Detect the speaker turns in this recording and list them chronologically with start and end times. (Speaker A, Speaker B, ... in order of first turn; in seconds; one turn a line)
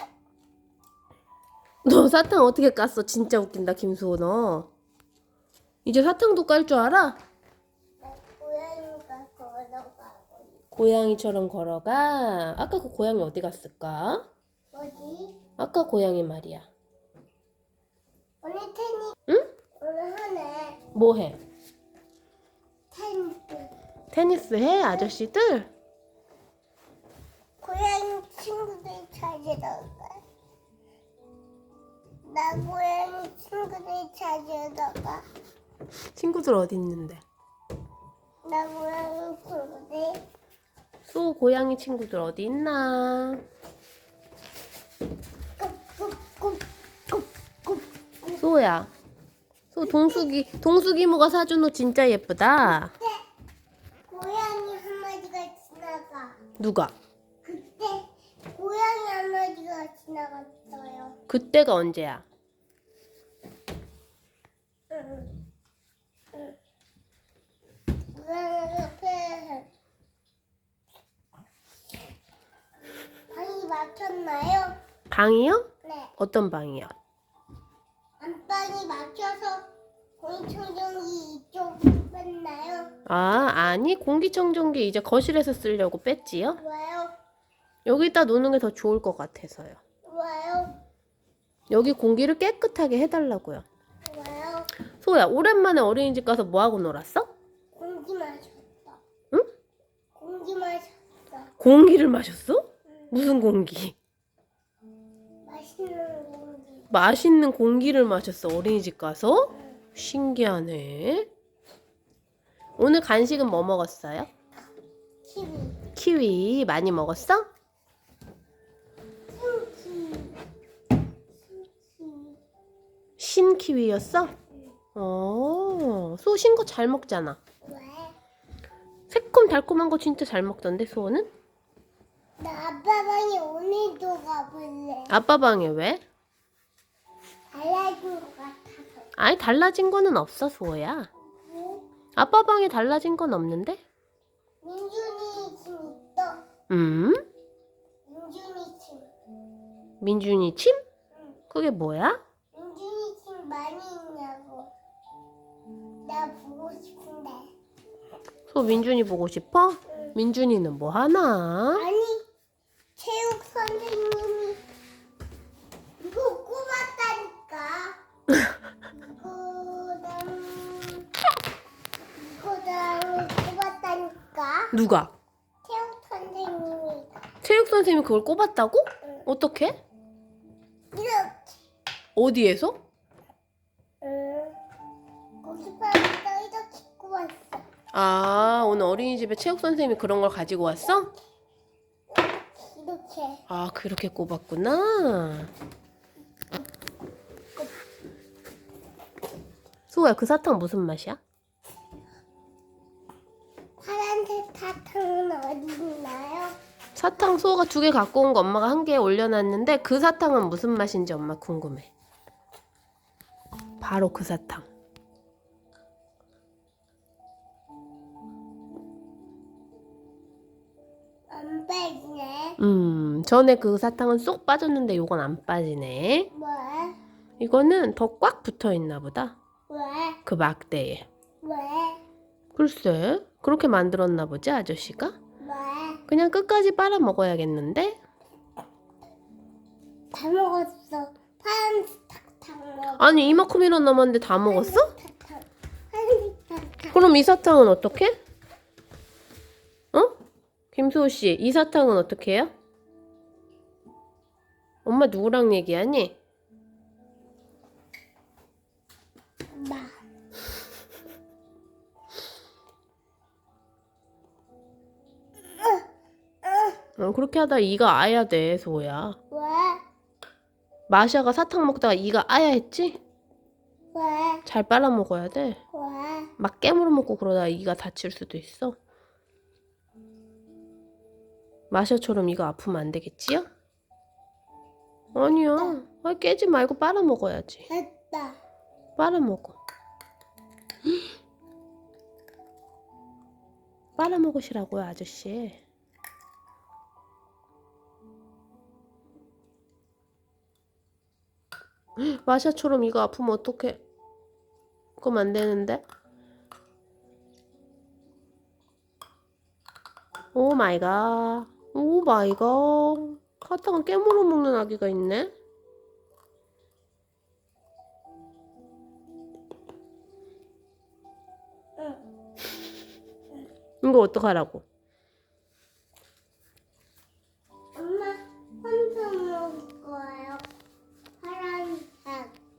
Speaker A: 1.8-4.7
Speaker A: 5.8-7.2
Speaker B: 8.0-10.6
Speaker A: 10.7-14.2
Speaker B: 14.7-15.4
Speaker A: 15.6-16.7
Speaker B: 18.4-19.1
Speaker B: 19.8-20.8
Speaker A: 20.9-21.4
Speaker B: 22.9-23.7
Speaker A: 24.1-25.7
Speaker B: 27.6-30.2
Speaker B: 32.2-35.2
Speaker A: 36.1-37.2
Speaker B: 38.4-40.2
Speaker A: 41.0-43.4
Speaker B: 45.6-48.4
Speaker A: 48.4-48.9
Speaker A: 49.7-52.9
Speaker B: 54.1-56.4
Speaker A: 56.6-56.9
Speaker B: 57.4-61.1
Speaker A: 61.3-62.2
Speaker B: 64.9-65.3
Speaker B: 68.1-69.7
Speaker B: 73.3-74.7
Speaker A: 75.1-76.9
Speaker B: 75.8-76.1
Speaker B: 78.2-79.7
Speaker B: 80.2-82.9
Speaker A: 83.0-86.6
Speaker B: 86.6-87.1
Speaker A: 87.8-89.8
Speaker B: 90.0-90.7
Speaker A: 91.7-93.6
Speaker B: 94.1-94.7
Speaker A: 95.0-97.3
Speaker B: 97.7-99.0
Speaker B: 100.2-101.5
Speaker A: 101.6-104.0
Speaker B: 105.4-106.9
Speaker A: 106.9-111.3
Speaker A: 112.8-114.3
Speaker B: 115.2-115.8
Speaker A: 115.9-117.5
Speaker B: 119.3-120.4
Speaker B: 121.5-122.4
Speaker A: 123.2-124.3
Speaker A: 124.9-127.4
Speaker B: 127.6-128.2
Speaker A: 129.1-131.3
Speaker B: 132.4-135.1
Speaker A: 135.1-136.0
Speaker B: 137.5-139.1
Speaker A: 139.2-141.1
Speaker B: 141.4-141.8
Speaker A: 142.2-143.8
Speaker B: 144.6-146.4
Speaker A: 146.7-147.2
Speaker B: 148.1-149.1
Speaker A: 150.0-150.8
Speaker A: 151.5-152.2
Speaker B: 152.5-154.7
Speaker B: 156.0-157.5
Speaker A: 158.5-161.8
Speaker B: 161.7-162.2
Speaker B: 163.0-164.6
Speaker B: 166.0-168.0
Speaker B: 169.0-171.1
Speaker B: 172.2-174.7
Speaker A: 174.7-175.1
Speaker B: 175.6-177.2
Speaker A: 177.4-179.8
Speaker B: 180.9-181.6
Speaker A: 182.2-182.8
Speaker B: 184.0-184.6
Speaker B: 185.4-187.7
Speaker A: 187.9-191.1
Speaker B: 192.1-193.4
Speaker A: 193.5-195.5
Speaker A: 199.9-201.2
Speaker B: 203.8-206.6
Speaker A: 206.9-211.9
Speaker A: 213.8-214.7
Speaker B: 221.3-222.6
Speaker A: 222.6-226.3
Speaker B: 226.3-227.0
Speaker A: 227.4-229.4
Speaker B: 229.7-230.2
Speaker A: 230.2-231.1
Speaker B: 231.4-232.0
Speaker A: 232.5-235.2
Speaker B: 235.4-236.0
Speaker A: 236.1-238.0
Speaker B: 240.1-243.4
Speaker A: 243.0-244.9
Speaker B: 244.4-247.2
Speaker A: 246.9-248.2
Speaker A: 250.7-252.5
Speaker A: 254.8-256.2
Speaker B: 259.5-259.9
Speaker B: 266.4-266.8
Speaker A: 267.0-269.2
Speaker B: 269.3-269.8
Speaker A: 270.9-273.0
Speaker B: 273.9-274.4
Speaker A: 274.4-275.6
Speaker B: 275.7-276.3
Speaker A: 276.4-278.8
Speaker A: 281.7-283.5
Speaker A: 285.1-287.7
Speaker B: 287.7-288.4
Speaker A: 289.0-289.6
Speaker A: 294.0-295.6
Speaker A: 302.0-303.8
Speaker A: 305.0-305.8
Speaker A: 310.3-315.3
Speaker A: 323.8-324.6
Speaker B: 327.8-330.4
Speaker B: 331.2-332.3